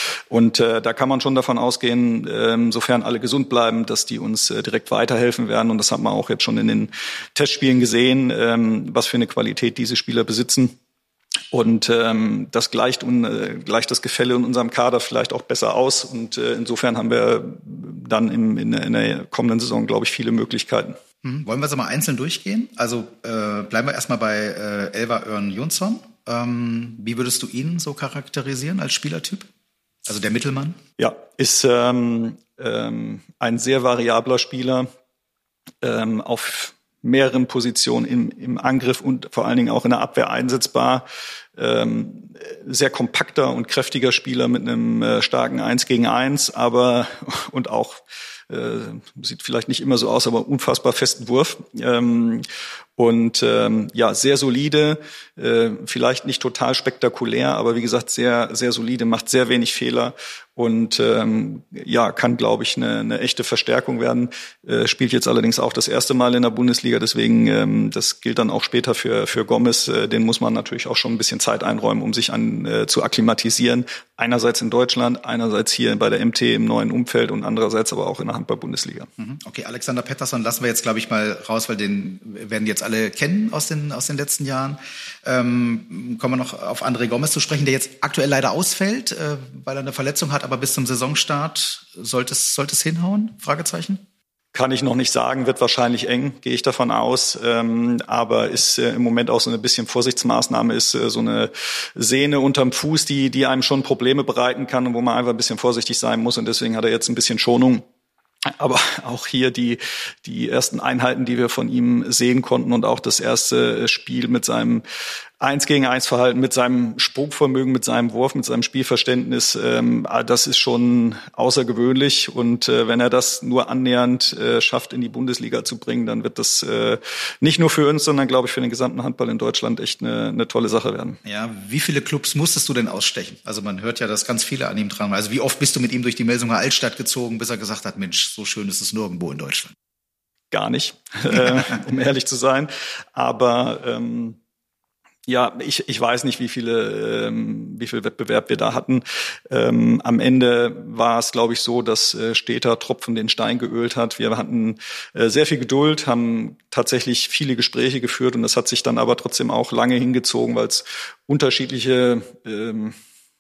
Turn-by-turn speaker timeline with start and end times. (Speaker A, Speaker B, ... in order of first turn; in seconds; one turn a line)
Speaker A: 0.3-10.8
Speaker A: 11.5-21.0
Speaker B: 21.2-29.5
Speaker B: 30.1-30.8
Speaker A: 31.0-34.9
Speaker A: 35.8-41.0
Speaker A: 41.6-79.1
Speaker B: 79.2-94.0
Speaker A: 94.5-107.8
Speaker A: 108.6-114.8
Speaker A: 115.4-131.2
Speaker B: 131.2-139.8
Speaker A: 140.5-144.4
Speaker A: 145.3-163.0